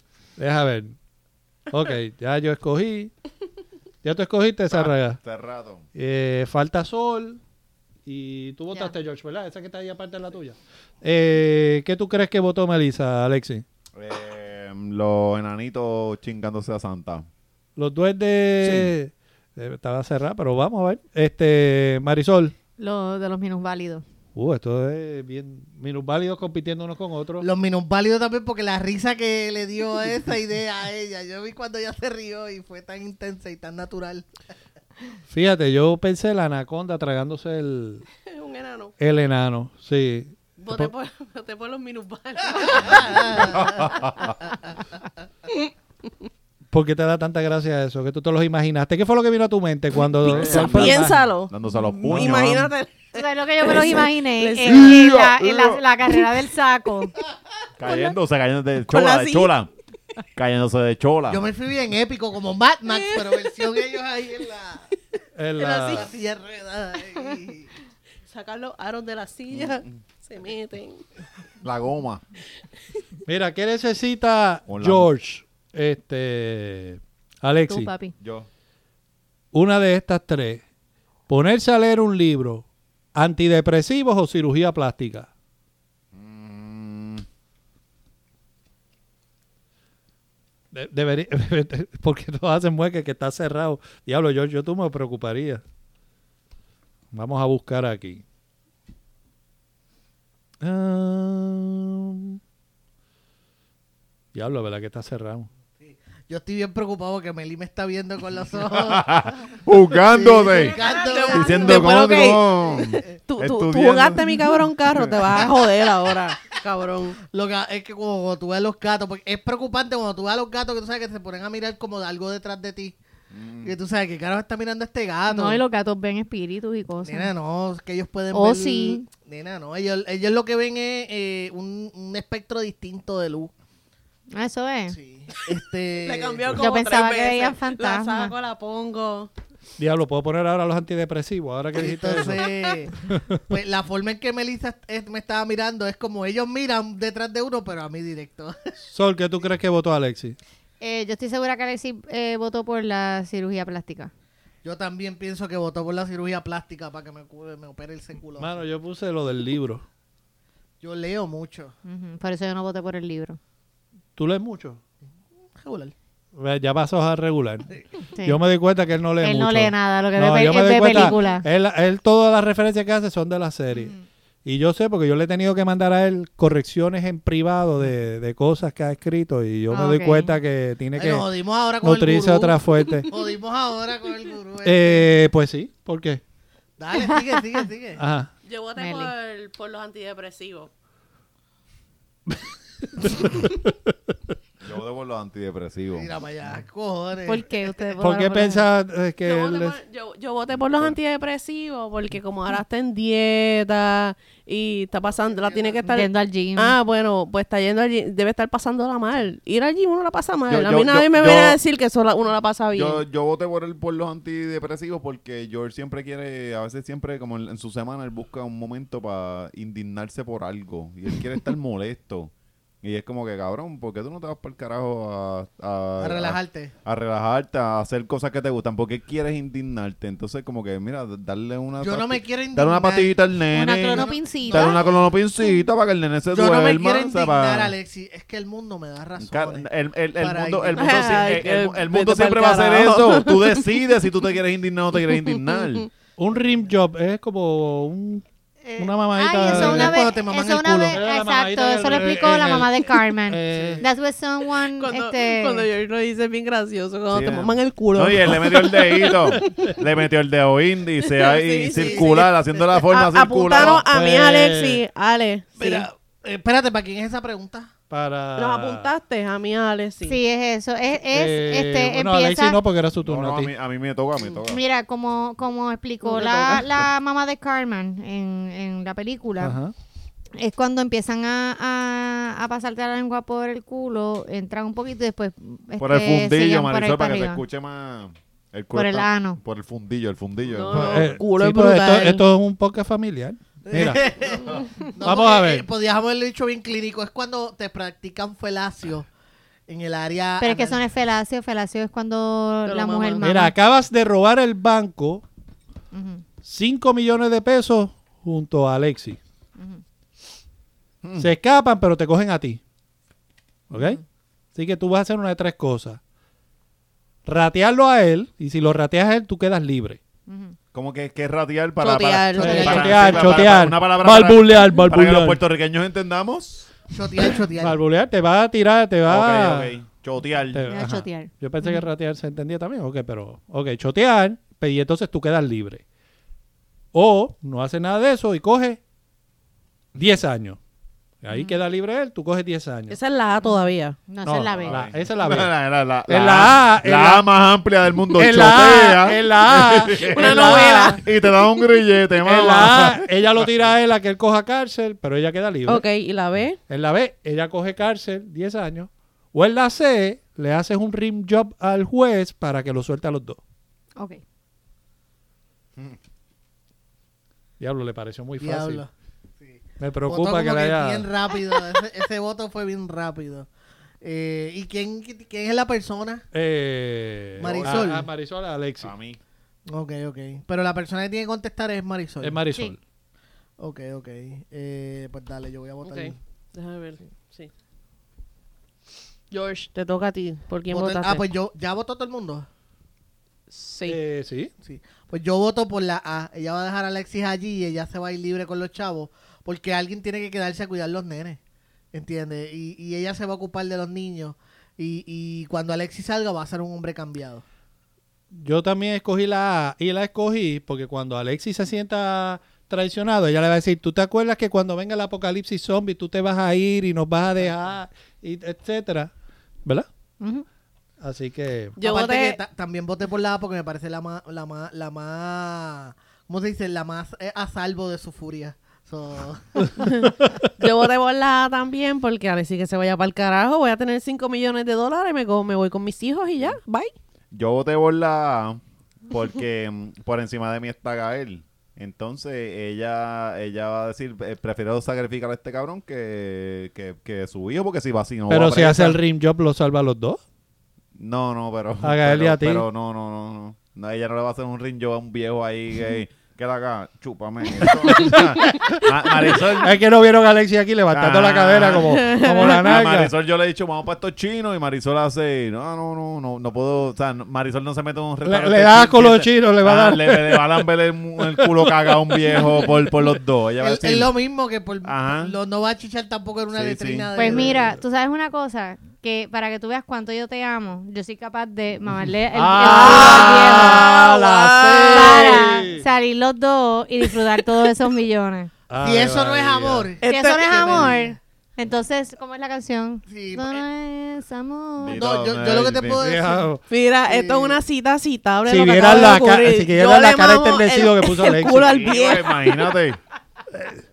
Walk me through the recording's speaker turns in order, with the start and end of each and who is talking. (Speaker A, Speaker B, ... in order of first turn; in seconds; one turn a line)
Speaker A: 0.4-1.0
Speaker A: 1.7-3.1
Speaker A: 4.0-5.2
Speaker B: 4.7-5.9
Speaker A: 6.0-7.4
Speaker A: 8.1-13.6
Speaker B: 14.0-17.3
Speaker A: 17.8-22.6
Speaker B: 18.6-18.9
Speaker C: 22.8-24.0
Speaker A: 24.4-27.4
Speaker D: 27.4-34.3
Speaker A: 35.3-38.0
Speaker E: 38.3-39.0
Speaker A: 39.0-40.9
Speaker E: 40.6-43.7
Speaker D: 42.8-43.8
Speaker B: 43.5-44.3
Speaker A: 46.7-51.3
Speaker B: 50.2-52.7
Speaker E: 50.2-55.0
Speaker A: 52.1-52.4
Speaker C: 53.1-57.1
Speaker B: 54.6-55.8
Speaker B: 57.8-59.7
Speaker E: 58.9-59.5
Speaker B: 60.4-61.5
Speaker D: 61.3-64.9
Speaker E: 63.0-63.4
Speaker A: 65.4-66.1
Speaker E: 65.6-66.1
Speaker D: 65.6-67.7
Speaker E: 68.3-71.0
Speaker B: 69.5-70.0
Speaker B: 71.6-72.2
Speaker A: 73.3-77.9
Speaker B: 74.7-75.1
Speaker C: 77.7-78.2
Speaker B: 78.2-78.5
Speaker A: 79.5-80.6
Speaker A: 81.3-85.3
Speaker B: 86.1-87.2
Speaker A: 90.7-95.6
Speaker A: 97.1-98.2
Speaker A: 100.6-102.4
Speaker A: 104.3-105.5
Speaker D: 105.8-109.2
Speaker B: 108.7-110.8
Speaker D: 110.0-112.0
Speaker E: 110.8-117.2
Speaker B: 111.3-115.5
Speaker D: 112.7-113.2
Speaker D: 117.3-123.0
Speaker B: 123.3-123.7
Speaker D: 123.6-125.6
Speaker C: 125.3-127.3
Speaker D: 127.0-133.5
Speaker C: 128.3-129.1
Speaker C: 134.3-135.0
Speaker D: 134.9-136.5
Speaker E: 136.0-139.3
Speaker C: 136.5-138.3
Speaker A: 139.8-142.5
Speaker D: 141.7-148.7
Speaker A: 143.0-143.4
Speaker A: 148.9-150.4
Speaker C: 150.8-154.1
Speaker D: 154.6-158.6
Speaker A: 158.4-159.8
Speaker D: 160.8-161.7
Speaker C: 161.9-163.4
Speaker A: 164.2-164.8
Speaker D: 165.6-165.9
Speaker A: 166.4-167.7
Speaker C: 168.2-168.4
Speaker A: 168.2-173.9
Speaker C: 169.2-171.4
Speaker C: 173.7-174.0
Speaker A: 174.4-181.3
Speaker C: 179.7-180.3
Speaker D: 180.9-185.1
Speaker A: 181.8-183.1
Speaker A: 184.7-186.2
Speaker D: 186.8-188.0
Speaker A: 188.0-188.3
Speaker E: 188.4-190.7
Speaker C: 188.8-189.1
Speaker A: 193.0-193.8
Speaker B: 194.6-196.1
Speaker D: 195.9-197.9
Speaker C: 197.3-198.7
Speaker A: 198.0-199.8
Speaker E: 199.2-213.0
Speaker D: 205.1-205.8
Speaker C: 205.8-206.8
Speaker B: 210.5-211.6
Speaker B: 212.7-222.3
Speaker B: 222.8-237.7
Speaker D: 226.0-226.7
Speaker D: 231.8-233.2
Speaker C: 233.5-234.8
Speaker D: 233.8-235.0
Speaker D: 236.3-241.4
Speaker B: 239.2-245.9
Speaker E: 240.8-243.7
Speaker E: 245.5-245.8
Speaker A: 246.2-248.2
Speaker C: 248.6-255.7
Speaker A: 248.8-250.0
Speaker D: 249.4-251.0
Speaker A: 250.9-253.8
Speaker D: 253.5-253.8
Speaker E: 254.7-259.7
Speaker B: 257.1-263.9
Speaker E: 261.0-265.9
Speaker D: 261.7-262.2
Speaker A: 263.6-264.8
Speaker D: 265.6-267.7
Speaker A: 267.9-268.9
Speaker E: 268.4-270.2
Speaker C: 270.1-272.6
Speaker A: 271.1-273.5
Speaker B: 273.0-274.6
Speaker C: 274.5-279.6
Speaker E: 276.0-276.7
Speaker A: 279.4-279.7
Speaker C: 280.4-287.4
Speaker B: 285.8-291.2
Speaker C: 288.7-289.4
Speaker E: 290.5-292.2
Speaker A: 290.7-294.0
Speaker D: 293.6-299.1
Speaker A: 295.0-295.7
Speaker D: 299.7-300.8
Speaker C: 300.4-303.5
Speaker E: 302.6-303.2
Speaker A: 303.2-305.2
Speaker C: 305.9-306.2
Speaker A: 306.4-309.2
Speaker B: 311.0-311.3
Speaker A: 311.2-312.6
Speaker A: 313.7-314.0
Speaker C: 313.7-314.0
Speaker A: 314.6-316.0
Speaker A: 317.2-320.0
Speaker C: 320.3-320.5
Speaker B: 320.7-326.7
Speaker E: 321.8-323.3
Speaker A: 322.4-325.4
Speaker D: 322.5-322.8
Speaker D: 326.9-327.8
Speaker A: 327.6-329.7
Speaker B: 329.1-330.6
Speaker A: 330.5-335.8
Speaker C: 330.7-331.9
Speaker A: 336.9-338.8
Speaker A: 339.9-340.6
Speaker A: 341.2-343.0
Speaker C: 341.3-341.6
Speaker E: 342.9-344.0
Speaker C: 344.1-344.8
Speaker A: 344.2-345.5
Speaker B: 344.5-353.7
Speaker A: 346.1-347.2
Speaker A: 348.1-351.0
Speaker E: 350.0-351.1
Speaker A: 352.2-355.9
Speaker E: 355.7-356.6
Speaker A: 356.7-363.4
Speaker A: 367.6-368.8
Speaker D: 368.4-368.9
Speaker D: 369.4-373.5
Speaker A: 369.8-371.1
Speaker D: 374.0-376.3
Speaker A: 376.3-378.9
Speaker D: 377.4-378.1
Speaker B: 377.4-377.8
Speaker B: 378.8-379.2
Speaker D: 379.7-382.4
Speaker A: 382.2-382.8
Speaker D: 383.6-386.2
Speaker E: 385.8-387.5
Speaker E: 389.3-391.3
Speaker D: 390.7-392.5
Speaker E: 393.5-394.0
Speaker A: 393.9-394.5
Speaker D: 394.6-401.4
Speaker D: 401.9-407.4
Speaker A: 408.4-419.1
Speaker A: 421.0-421.8
Speaker E: 421.8-422.4
Speaker D: 421.8-429.9
Speaker E: 429.8-436.9
Speaker B: 437.3-449.0
Speaker A: 448.3-450.2
Speaker B: 451.0-459.8
Speaker A: 451.8-452.6
Speaker A: 457.6-463.1
Speaker B: 460.9-474.1
Speaker E: 461.7-462.8
Speaker A: 468.2-470.6
Speaker A: 471.2-471.7
Speaker A: 472.3-472.6
Speaker D: 473.6-477.7
Speaker B: 474.8-475.3
Speaker B: 476.5-477.1
Speaker C: 477.1-484.0
Speaker A: 482.3-485.9
Speaker E: 482.6-485.6
Speaker C: 484.9-488.5
Speaker A: 488.7-489.9
Speaker D: 488.8-491.2
Speaker E: 490.0-490.7
Speaker C: 490.0-495.0
Speaker D: 493.1-493.6
Speaker B: 494.8-496.0
Speaker D: 494.9-496.5
Speaker A: 496.0-496.6
Speaker E: 496.7-502.6
Speaker D: 497.1-497.6
Speaker A: 498.5-501.7
Speaker B: 501.6-503.0
Speaker A: 503.5-503.8